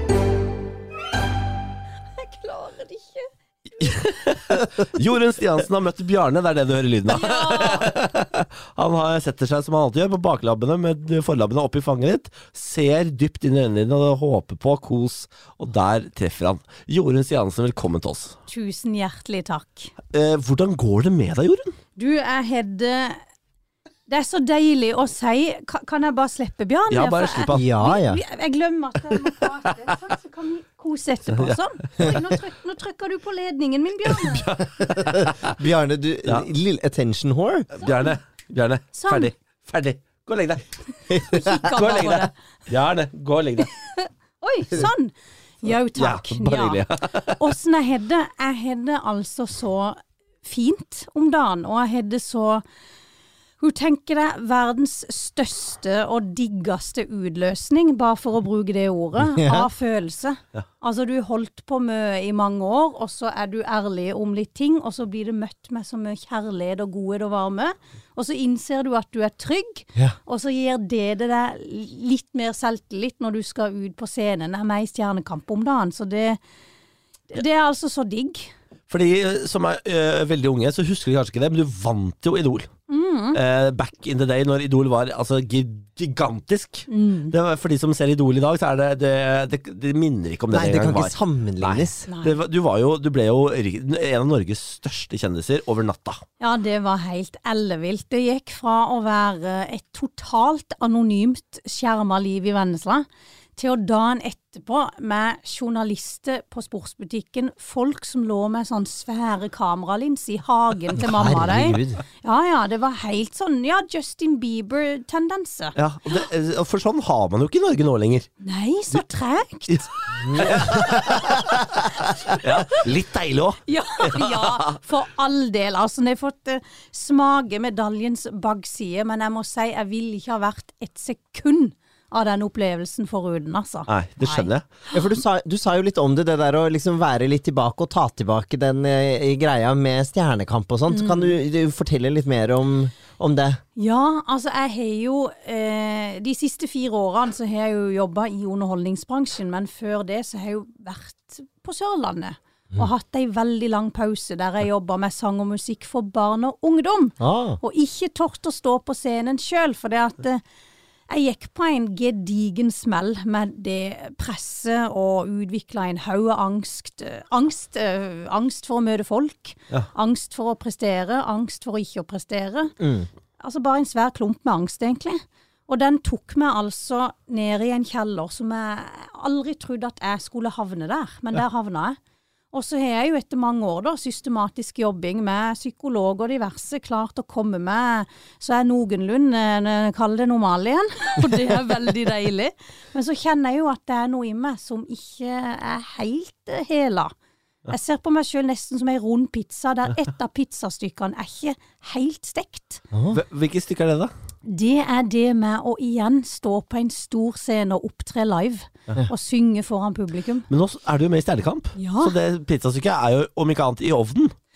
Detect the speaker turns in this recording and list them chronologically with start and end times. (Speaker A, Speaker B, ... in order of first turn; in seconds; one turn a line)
Speaker A: 2.2-3.3
Speaker A: 3.8-4.2
Speaker B: 3.8-18.4
Speaker A: 7.1-8.0
Speaker A: 18.5-19.9
Speaker B: 20.1-21.7
Speaker A: 22.0-23.2
Speaker A: 24.1-34.5
Speaker B: 26.9-27.7
Speaker C: 27.5-28.2
Speaker B: 29.7-29.9
Speaker B: 34.1-35.6
Speaker C: 35.0-37.7
Speaker B: 37.8-40.6
Speaker A: 37.8-38.1
Speaker A: 38.9-39.3
Speaker A: 41.1-42.3
Speaker B: 41.6-43.7
Speaker A: 43.6-46.8
Speaker B: 46.0-47.4
Speaker A: 47.4-52.6
Speaker A: 53.6-76.4
Speaker C: 59.2-59.7
Speaker A: 77.3-78.5
Speaker B: 78.9-82.7
Speaker A: 82.9-83.4
Speaker B: 83.3-96.2
Speaker A: 86.9-87.3
Speaker C: 90.5-92.1
Speaker A: 92.1-92.4
Speaker A: 96.4-103.0
Speaker A: 103.6-115.8
Speaker C: 111.0-112.0
Speaker B: 115.8-118.3
Speaker A: 118.4-120.8
Speaker B: 119.7-121.6
Speaker C: 120.2-122.4
Speaker A: 121.6-122.8
Speaker B: 122.3-124.8
Speaker A: 123.7-134.5
Speaker B: 133.9-134.7
Speaker C: 134.9-143.6
Speaker A: 140.9-141.3
Speaker A: 143.8-160.4
Speaker C: 157.2-157.6
Speaker A: 161.1-172.7
Speaker C: 172.8-173.1
Speaker A: 173.4-182.0
Speaker A: 182.5-197.1
Speaker A: 197.7-202.8
Speaker C: 202.9-203.2
Speaker B: 203.1-204.1
Speaker A: 204.5-210.5
Speaker B: 210.5-214.3
Speaker A: 211.8-212.2